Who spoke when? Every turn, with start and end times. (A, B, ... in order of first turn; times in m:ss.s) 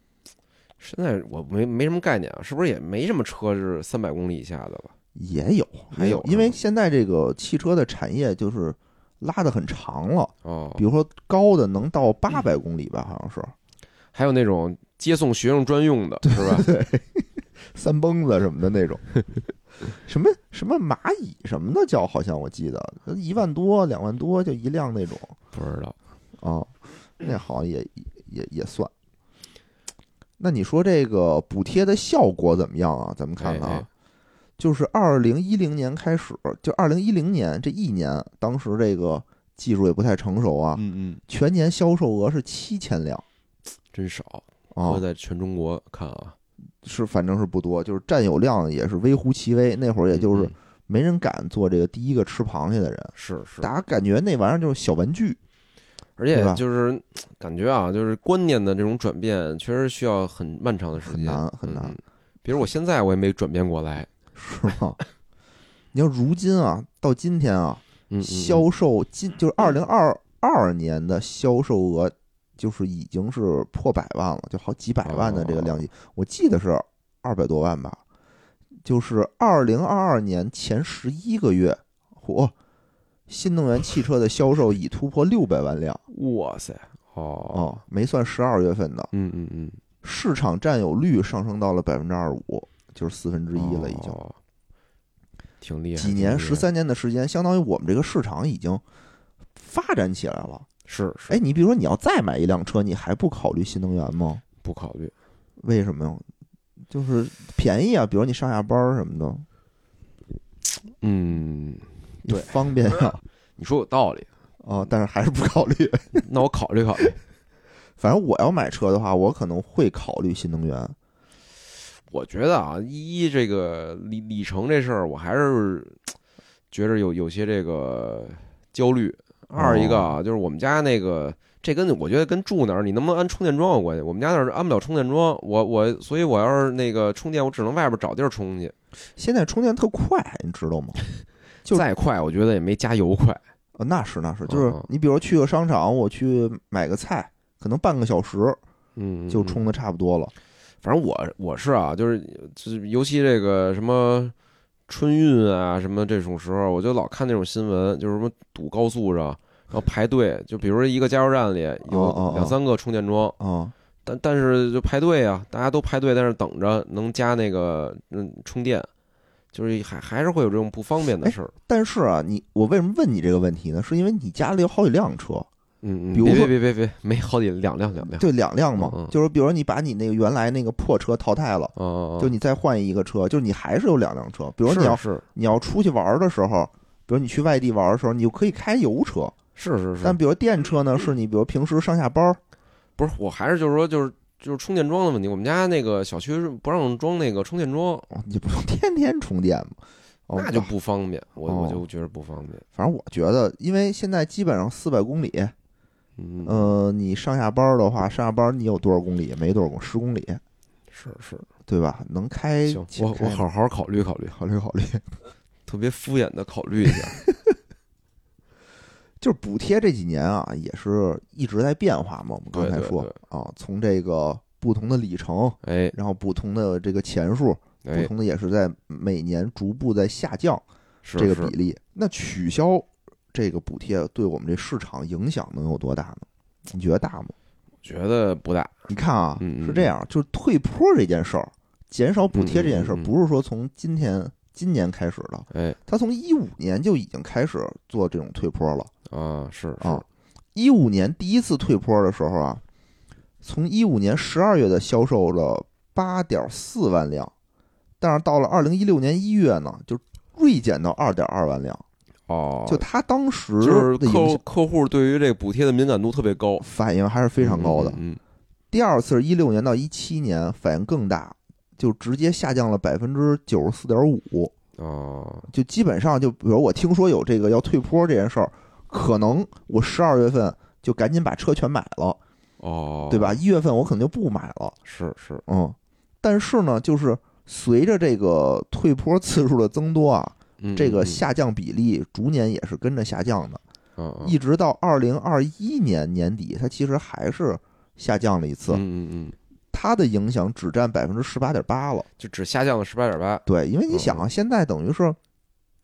0:00.8-0:04.9 A
0:05.2-0:13.5 B
0:05.9-0:06.6 A
0:10.4-0:10.8 A
0:14.1-0:16.7 A
0:16.2-0:19.1 B
0:19.9-0:25.4 B
0:25.5-0:26.0 A
0:26.4-0:28.9 B
0:30.4-0:33.9 B
0:33.4-0:33.9 A
0:34.6-0:43.2 B
0:40.8-0:41.2 A
0:43.9-0:46.4 A
0:44.7-0:45.0 B
0:46.8-0:55.4 B
0:50.1-0:50.5 A
0:53.2-0:53.7 A
0:56.2-1:04.1 A
0:56.3-0:56.6 B
1:01.0-1:02.0 B
1:04.4-1:05.0 B
1:05.9-1:18.0 B
1:08.1-1:08.7 A
1:15.0-1:15.9 A
1:18.8-1:22.5 B
1:23.3-1:26.0 B
1:26.1-1:27.8 A
1:27.5-1:29.1 B
1:29.1-1:29.8 A
1:30.0-1:34.2 B
1:33.5-1:34.4 A
1:35.6-1:36.7 A
1:36.0-1:38.8 B
1:39.6-1:40.7 B
1:40.9-1:41.4 A
1:41.3-1:44.4 B
1:44.6-1:45.1 A
1:45.6-1:46.2 B
1:46.9-1:49.5 B
1:51.0-1:52.4 A
1:52.2-1:53.2 B
1:53.6-1:54.3 A
1:54.6-1:56.3 B
1:56.2-1:57.2 A
1:58.0-2:01.0 B
2:02.1-2:06.0 A
2:06.7-2:18.8 A
2:09.6-2:10.2 B
2:19.2-2:21.0 B
2:21.7-2:23.4 A
2:23.8-2:28.6 B
2:24.5-2:24.9 A
2:29.0-2:29.6 A
2:29.3-2:30.3 B
2:30.8-2:34.3 A
2:34.9-2:43.4 A
2:41.9-2:42.6 B
2:43.4-2:43.7 B
2:44.0-2:48.9 A
2:49.5-2:51.5 A
2:51.2-2:55.5 B
2:55.8-2:59.2 A
2:56.1-2:56.5 B
2:58.1-3:09.3 B
3:01.8-3:02.3 A
3:04.7-3:05.2 A
3:09.6-3:10.2 A
3:10.0-3:12.4 B
3:13.0-3:18.1 A
3:18.1-3:20.7 B
3:20.3-3:22.6 A
3:21.5-3:21.8 B
3:22.8-3:25.5 B
3:26.2-3:26.8 A
3:26.4-3:30.4 B
3:30.9-3:31.5 A
3:31.7-3:33.4 B
3:32.7-3:34.4 A
3:34.3-3:35.1 B
3:35.7-3:37.2 A
3:39.2-3:50.6 B
3:42.5-3:43.2 A
3:45.6-3:46.0 A
3:47.8-3:48.1 A
3:51.0-3:51.5 A
3:51.2-3:57.4 B
3:57.8-3:58.7 A
3:58.9-4:08.9 B
3:59.4-3:59.9 A
4:02.3-4:03.1 A
4:05.5-4:05.8 A
4:09.1-4:10.0 A
4:09.8-4:12.6 B
4:13.4-4:17.3 B
4:18.0-4:21.8 B
4:22.3-4:22.8 A
4:22.7-4:24.4 B
4:23.6-4:26.6 A
4:26.6-4:28.0 B
4:27.4-4:28.2 A
4:28.7-4:34.5 B
4:34.8-4:35.5 A
4:35.5-4:42.2 B
4:42.6-4:43.4 A
4:43.1-4:44.8 B
4:44.8-4:45.4 A
4:45.5-4:53.6 B
4:50.6-4:51.2 A
4:54.0-4:54.4 A
4:54.2-4:58.8 B
4:58.7-4:59.4 A
4:59.7-5:02.1 B
5:02.2-5:04.3 A
5:03.5-5:05.2 B